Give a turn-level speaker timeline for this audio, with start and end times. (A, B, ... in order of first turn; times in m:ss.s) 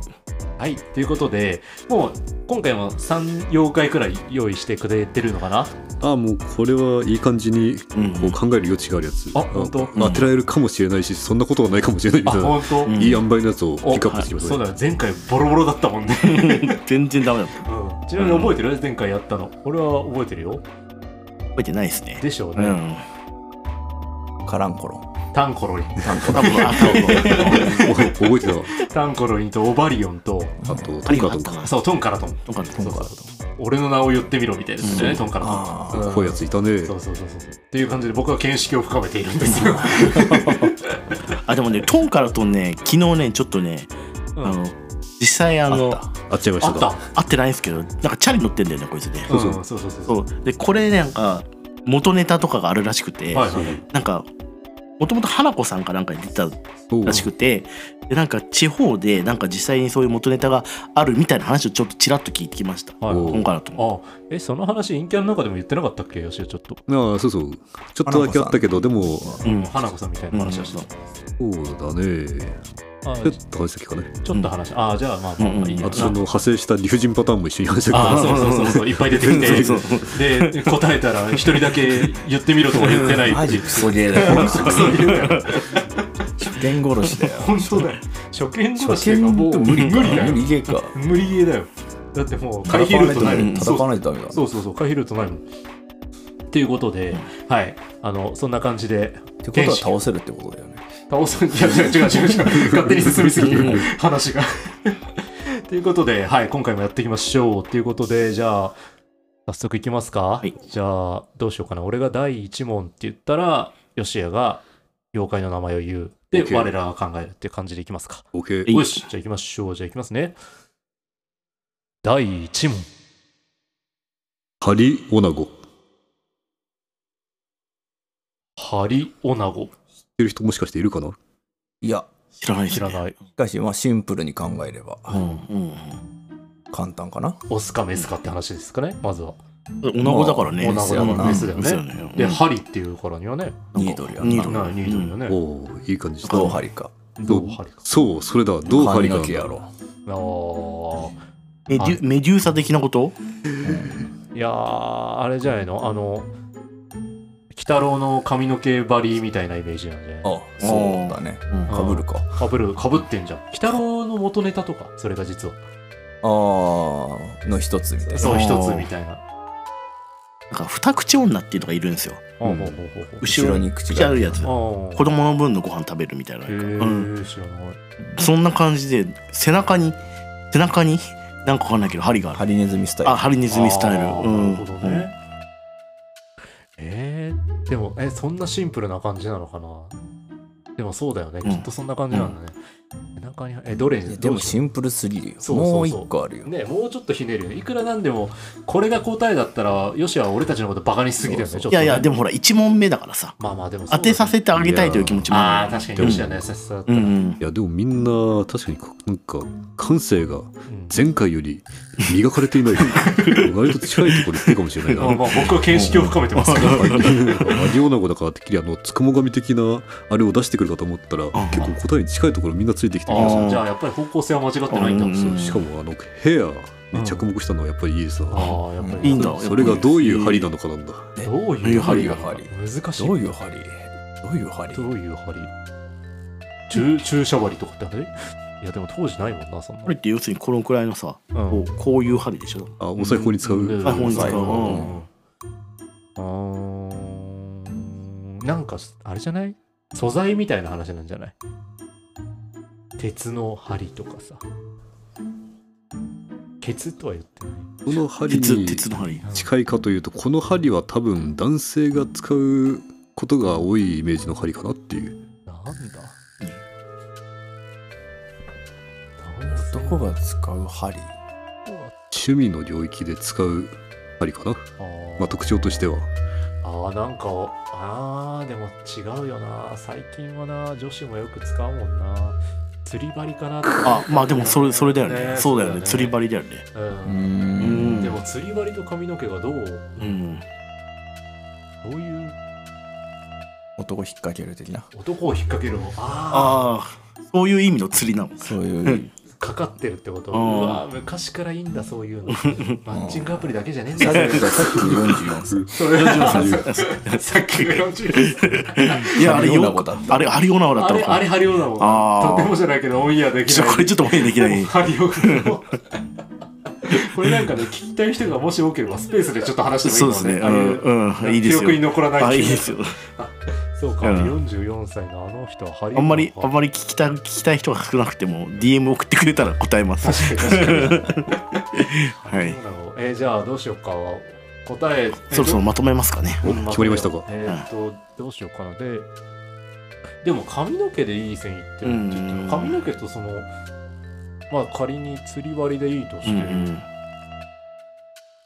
0:00.6-0:05.8 A
0:06.0-0:14.6 B
0:08.0-0:08.4 C
0:09.3-0:10.0 A
0:10.0-0:10.3 C
0:12.2-0:13.0 A
0:12.9-0:13.3 C
0:13.8-0:16.8 A
0:16.2-0:17.6 C
0:17.6-0:20.7 A
0:18.2-0:18.6 C
0:21.6-0:23.0 C
0:22.2-0:22.8 A
0:24.4-0:25.1 D
0:25.3-0:27.9 A
0:26.0-0:27.6 D
0:26.3-0:28.0 C
0:27.2-0:28.7 B
0:28.8-0:30.7 A
0:30.6-0:30.9 D
0:30.6-0:31.7 B
0:31.1-0:31.8 C
0:31.6-0:41.2 A
0:32.5-0:32.8 C
0:32.8-0:33.3 D
0:34.8-0:35.2 C
0:35.4-0:36.1 D
0:35.9-0:37.0 B
0:39.7-0:40.3 C
0:40.0-0:40.7 D
0:41.3-0:43.9 C
0:44.4-0:46.0 C
0:45.7-0:46.1 D
0:46.3-0:47.0 B
0:46.6-0:47.0 A
0:47.1-0:49.3 C
0:49.3-0:50.2 A
0:49.3-0:49.6 B
0:50.1-0:54.3 C
0:53.3-0:53.8 A
0:53.6-0:53.8 B
0:55.0-1:03.8 C
0:56.9-0:57.3 B
1:03.0-1:06.8 A
1:03.1-1:03.5 B
1:06.9-1:09.4 B
1:08.1-1:09.4 D
1:09.4-1:11.0 A
1:09.4-1:09.7 C
1:10.3-1:10.9 C
1:11.4-1:12.6 B
1:13.0-1:13.4 A
1:13.2-1:14.1 B
1:14.2-1:16.2 A
1:15.4-1:16.2 C
1:15.8-1:20.0 B
1:17.9-1:20.8 C
1:17.9-1:26.0 A
1:21.5-1:22.0 C
1:22.7-1:23.2 C
1:23.1-1:25.3 D
1:24.2-1:25.7 C
1:26.4-1:28.0 D
1:27.2-1:35.4 A
1:28.8-1:31.0 D
1:29.7-1:30.4 C
1:32.7-1:34.4 D
1:33.2-1:33.7 C
1:36.5-1:40.0 A
1:39.4-1:40.8 D
1:41.1-1:48.8 A
1:42.5-1:43.8 B
1:49.5-2:00.4 A
1:56.3-1:56.7 B
1:58.3-1:58.7 B
1:58.7-1:59.0 C
2:02.0-2:02.9 A
2:04.6-2:05.6 B
2:08.6-2:09.7 A
2:10.2-2:11.2 B
2:11.8-2:12.1 D
2:12.4-2:13.0 C
2:12.7-2:13.2 A
2:13.4-2:15.4 D
2:15.1-2:16.0 C
2:16.7-2:17.4 D
2:17.5-2:19.4 A
2:19.8-2:22.4 C
2:20.0-2:21.5 D
2:20.6-2:23.7 A
2:23.7-2:25.2 C
2:23.8-2:24.8 D
2:24.5-2:25.4 A
2:25.3-2:26.6 B
2:26.2-2:26.6 C
2:26.3-2:26.9 D
2:27.2-2:27.8 A
2:27.3-2:29.5 B
2:28.7-2:29.7 D
2:30.1-2:31.2 A
2:31.7-2:33.2 C
2:33.6-2:34.0 D
2:34.3-2:36.3 A
2:37.5-2:40.3 A
2:40.2-2:42.3 D
2:40.6-2:41.8 C
2:41.7-2:45.6 A
2:46.2-2:48.5 D
2:48.0-2:49.2 A
2:48.2-2:48.9 C
2:50.5-2:52.2 C
2:52.4-2:53.3 A
2:52.4-2:52.8 B
2:53.2-2:57.1 C
2:53.2-2:54.4 D
2:54.4-2:55.1 A
2:56.5-2:57.8 A
2:58.2-3:00.0 C
3:00.5-3:02.4 C
3:02.3-3:03.2 D
3:03.0-3:05.1 C
3:03.5-3:05.1 A
3:06.8-3:10.0 A
3:10.8-3:12.6 A
3:11.4-3:12.3 C
3:13.2-3:14.6 A
3:14.1-3:16.5 D
3:15.4-3:22.2 A
3:21.2-3:21.8 D
3:21.7-3:23.4 C
3:23.4-3:24.4 A
3:23.9-3:26.3 C
3:24.5-3:25.3 B
3:25.3-3:27.2 A
3:26.0-3:26.4 B
3:26.9-3:27.4 C
3:27.4-3:35.4 B
3:30.7-3:31.0 A
3:32.8-3:35.5 C
3:35.0-3:37.4 A
3:35.7-3:36.2 D
3:36.4-3:37.7 C
3:36.5-3:43.6 B
3:41.3-3:41.8 C
3:43.1-3:45.2 A
3:43.1-3:43.6 C
3:44.7-3:45.6 C
3:45.0-3:51.1 B
3:46.9-3:47.3 A
3:48.3-3:49.4 A
3:48.8-3:49.2 D
3:49.0-3:50.5 C
3:51.2-3:54.9 D
3:51.2-3:53.3 A
3:51.6-3:52.1 C
3:54.7-3:55.5 A
3:56.7-4:00.0 A
3:59.9-4:02.7 C
4:01.3-4:01.7 A
4:02.8-4:04.5 B
4:03.0-4:05.1 A
4:03.8-4:04.9 C
4:04.1-4:05.0 D
4:06.2-4:11.4 A
4:13.0-4:14.4 A
4:16.6-4:17.8 A
4:17.9-4:25.2 B
4:18.3-4:19.3 C
4:19.2-4:19.5 A
4:25.5-4:26.2 A
4:29.2-4:30.2 A
4:29.5-4:31.1 D
4:31.6-4:32.2 A
4:32.1-4:34.7 B
4:34.8-4:35.4 A
4:35.2-4:36.1 B
4:36.6-4:46.2 A
4:43.8-4:46.6 C
4:46.7-4:50.2 A
4:47.0-4:48.1 D
4:47.6-4:48.2 C
4:50.0-4:50.4 C
4:51.8-4:52.4 A
4:53.8-4:54.9 D
4:54.9-4:56.7 A
4:56.3-4:59.0 C
4:58.4-4:59.1 D
4:59.4-5:05.0 A
5:00.3-5:00.8 C
5:02.4-5:02.8 C
5:02.9-5:03.4 D
5:04.0-5:06.3 D
5:04.1-5:05.0 C
5:05.5-5:06.7 B
5:05.7-5:09.2 A
5:05.9-5:12.6 C
5:09.0-5:10.4 D
5:10.8-5:16.0 A
5:13.5-5:15.5 C
5:16.8-5:26.5 A
5:19.8-5:23.0 C
5:24.0-5:24.4 C
5:26.0-5:32.6 C
5:30.0-5:31.1 A
5:32.2-5:35.6 A
5:35.3-5:36.6 C
5:36.4-5:37.3 B
5:36.4-5:39.1 A
5:40.2-5:43.5 A
5:41.8-5:42.8 C
5:44.5-5:46.7 A
5:46.2-5:46.8 C